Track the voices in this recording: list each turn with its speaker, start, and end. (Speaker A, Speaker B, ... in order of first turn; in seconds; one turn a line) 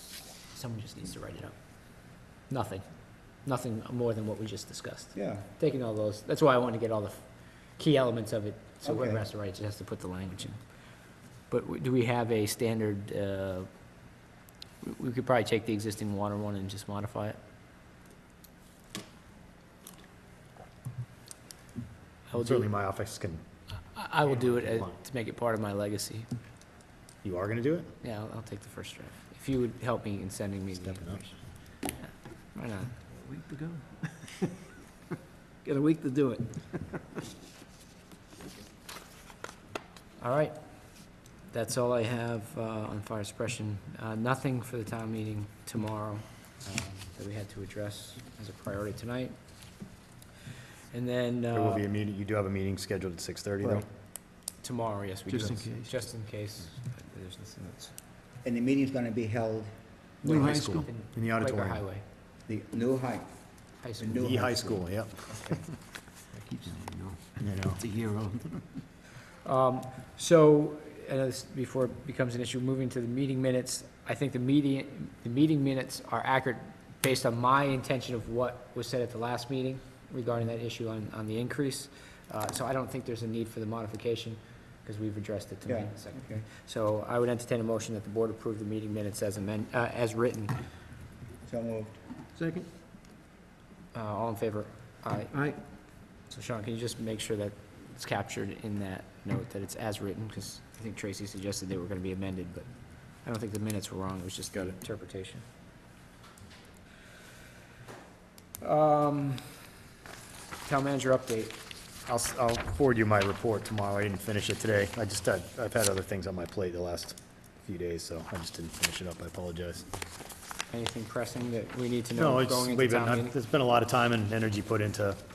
Speaker A: 0.5-1.5
Speaker A: 2.5-2.8
Speaker A: 3.4-7.2
Speaker B: 5.1-5.5
Speaker A: 7.8-10.6
Speaker B: 8.8-9.3
Speaker A: 11.5-13.7
Speaker A: 14.8-17.4
Speaker A: 22.3-22.7
Speaker C: 22.3-23.4
Speaker A: 23.9-26.3
Speaker C: 24.5-24.9
Speaker C: 27.2-27.9
Speaker A: 28.0-31.4
Speaker C: 30.8-31.2
Speaker A: 32.5-32.9
Speaker D: 33.1-34.5
Speaker D: 35.6-37.0
Speaker A: 40.2-40.5
Speaker A: 41.5-49.3
Speaker A: 50.9-51.8
Speaker C: 51.5-53.9
Speaker A: 54.6-57.9
Speaker D: 55.3-55.9
Speaker B: 58.4-59.7
Speaker B: 60.2-60.6
Speaker D: 60.2-60.9
Speaker C: 60.2-61.8
Speaker A: 60.9-62.0
Speaker B: 62.5-63.3
Speaker A: 63.8-64.4
Speaker B: 64.0-64.8
Speaker C: 64.2-65.7
Speaker D: 66.3-68.7
Speaker C: 67.4-67.8
Speaker A: 69.4-90.5
Speaker B: 85.7-86.5
Speaker B: 91.5-92.0
Speaker D: 92.3-92.7
Speaker A: 93.9-95.4
Speaker D: 95.3-95.6
Speaker A: 96.3-102.7
Speaker A: 103.2-105.4
Speaker A: 108.6-109.7
Speaker A: 110.6-111.6
Speaker C: 112.1-119.8
Speaker A: 120.7-123.3
Speaker C: 122.1-125.2